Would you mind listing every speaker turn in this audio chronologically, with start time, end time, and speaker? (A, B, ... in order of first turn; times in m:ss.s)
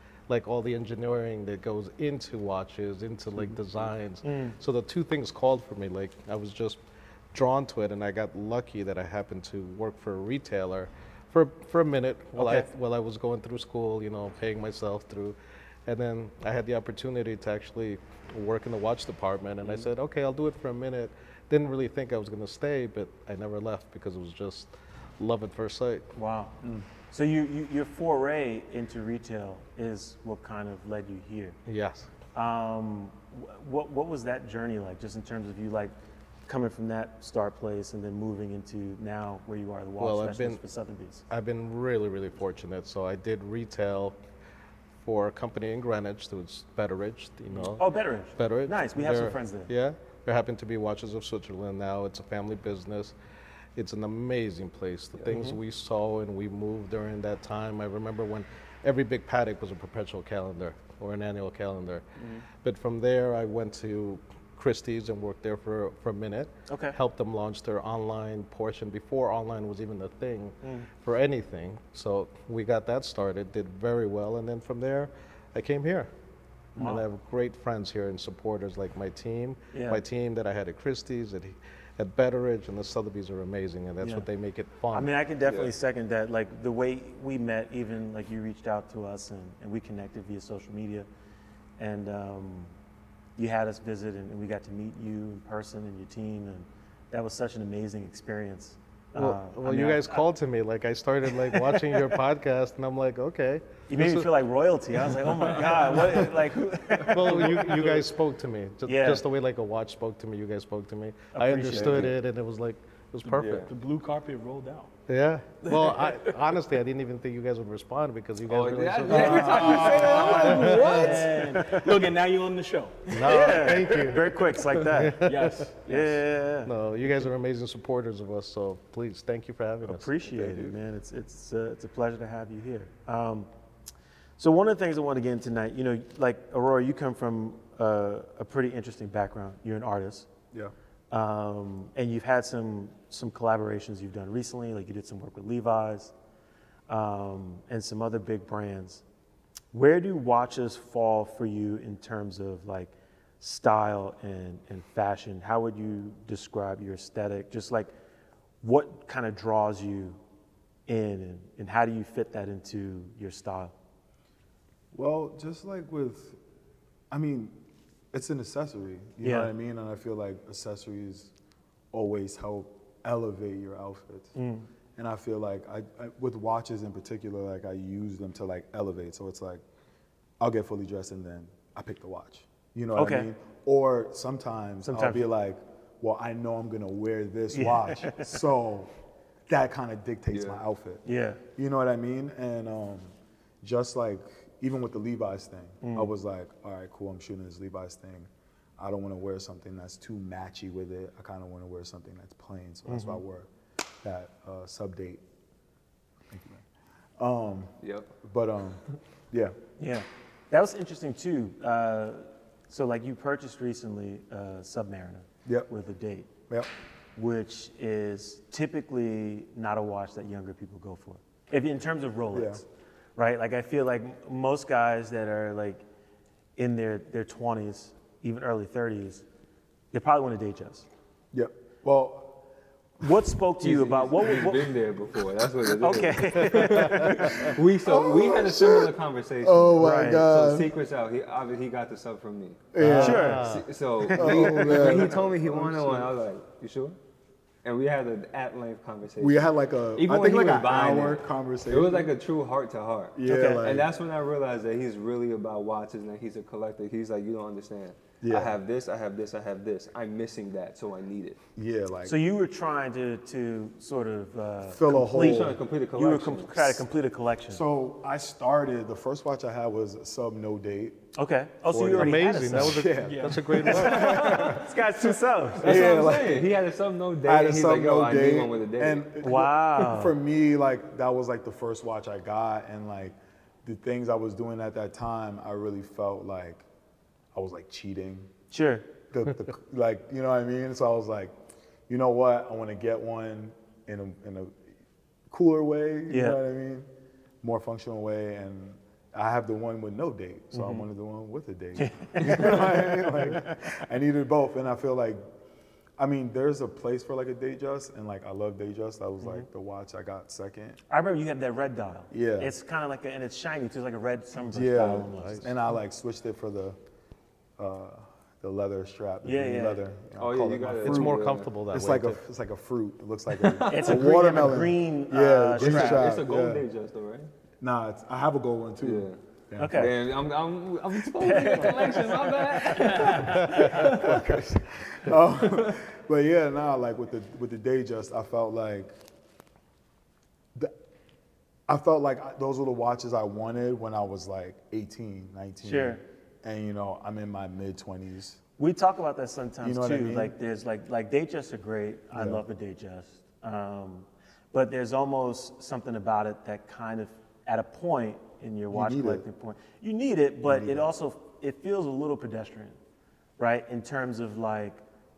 0:00.3-0:26.1 A
0:04.2-0:04.6 B
0:12.4-0:12.7 B
0:26.1-0:26.6 B
0:27.1-0:31.6 B
0:31.7-0:32.1 A
0:32.3-0:36.0 B
0:36.5-0:41.2 B
0:40.0-0:40.6 A
0:41.3-0:44.2 A
0:45.0-0:53.2 A
0:47.8-0:49.7 B
0:53.8-1:02.0 A
0:55.3-0:55.6 B
1:02.6-1:16.1 A
1:06.7-1:07.0 B
1:10.6-1:10.9 B
1:16.8-1:17.0 B
1:16.8-1:25.1 A
1:19.7-1:20.0 B
1:24.0-1:24.3 B
1:24.9-1:31.1 B
1:25.4-1:25.7 C
1:31.8-1:32.8 B
1:33.4-1:40.2 B
1:39.2-1:44.3 A
1:41.2-1:42.0 B
1:43.9-1:48.0 B
1:45.7-1:46.1 D
1:47.0-1:53.7 A
1:48.8-1:49.2 B
1:51.3-1:52.2 B
1:51.7-1:52.1 C
1:53.3-1:54.9 D
1:53.4-1:53.7 C
1:55.1-2:01.2 A
1:55.6-1:56.3 D
1:58.5-2:01.5 C
1:59.1-2:03.7 D
2:00.1-2:00.3 B
2:00.8-2:02.0 B
2:03.1-2:05.7 A
2:03.2-2:05.2 B
2:05.2-2:06.2 D
2:05.9-2:06.7 B
2:06.6-2:10.1 A
2:09.8-2:13.5 B
2:10.3-2:10.7 E
2:14.4-2:20.3 B
2:21.1-2:26.1 B
2:26.9-2:29.0 B
2:29.7-2:37.9 B
2:38.6-2:40.2 B
2:40.9-2:43.7 B
2:44.9-2:46.4 E
2:47.1-2:47.6 E
2:48.1-2:51.3 E
2:49.2-2:49.5 B
2:51.9-2:54.4 E
2:54.4-2:54.7 B
2:55.0-2:59.6 E
3:00.4-3:08.9 E
3:03.0-3:03.3 B
3:04.8-3:05.3 B
3:07.5-3:08.3 B
3:09.5-3:11.0 E
3:10.3-3:10.6 C
3:11.0-3:11.4 B
3:11.6-3:23.5 E
3:15.8-3:16.1 B
3:22.9-3:23.2 B
3:24.0-3:25.2 E
3:26.3-3:26.6 E
3:27.2-3:29.6 E
3:27.8-3:28.1 C
3:29.8-3:36.3 B
3:35.4-3:35.7 E
3:37.2-3:42.6 B
3:42.3-3:42.6 E
3:43.2-3:45.8 B
3:46.6-3:49.2 B
3:49.9-3:50.9 B
3:51.3-3:52.4 E
3:53.0-3:54.8 B
3:53.6-4:02.7 C
3:55.8-3:57.5 B
3:56.4-3:57.2 A
3:57.3-4:00.7 E
3:59.8-4:00.3 B
4:02.7-4:03.4 E
4:02.8-4:03.7 A
4:03.0-4:04.9 B
4:03.4-4:07.0 C
4:04.1-4:06.1 E
4:07.6-4:21.4 C
4:09.2-4:12.1 E
4:13.2-4:13.9 E
4:13.2-4:13.7 B
4:18.2-4:18.6 E
4:21.6-4:22.2 E
4:22.0-4:27.6 B
4:24.7-4:25.6 E
4:25.1-4:26.8 C
4:27.5-4:31.0 E
4:31.2-4:32.9 B
4:31.7-4:34.6 E
4:31.9-4:34.6 A
4:33.0-4:33.9 D
4:33.5-4:35.9 B
4:33.9-4:34.6 C
4:35.6-4:39.1 C
4:35.6-4:36.6 E
4:37.2-4:46.7 E
4:39.2-4:40.2 B
4:47.3-4:48.3 E
4:48.5-4:48.9 B
4:49.1-4:51.4 E
4:51.9-4:54.6 E
4:55.3-4:56.9 E
4:56.1-4:56.4 B
4:57.4-5:05.2 E
5:00.5-5:00.9 B
5:01.8-5:03.5 B
5:06.0-5:10.8 E
5:10.9-5:15.6 B
5:12.1-5:12.5 E
5:14.4-5:16.8 E
5:15.0-5:15.4 A
5:17.6-5:26.6 E
5:19.2-5:19.8 B
5:20.2-5:21.5 C
5:20.8-5:22.2 A
5:23.3-5:24.1 C
5:23.7-5:26.0 B
5:25.6-5:27.3 C
5:27.6-5:30.0 E
5:28.8-5:29.2 C
5:29.6-5:29.9 B
5:29.7-5:34.3 C
5:31.1-5:34.0 B
5:33.1-5:39.0 E
5:41.7-5:48.4 E
5:45.6-5:46.0 B
5:48.6-6:02.8 B
5:49.6-5:50.3 E
5:52.1-5:52.4 E
5:58.7-5:59.2 E
6:00.4-6:00.9 E
6:03.4-6:04.8 B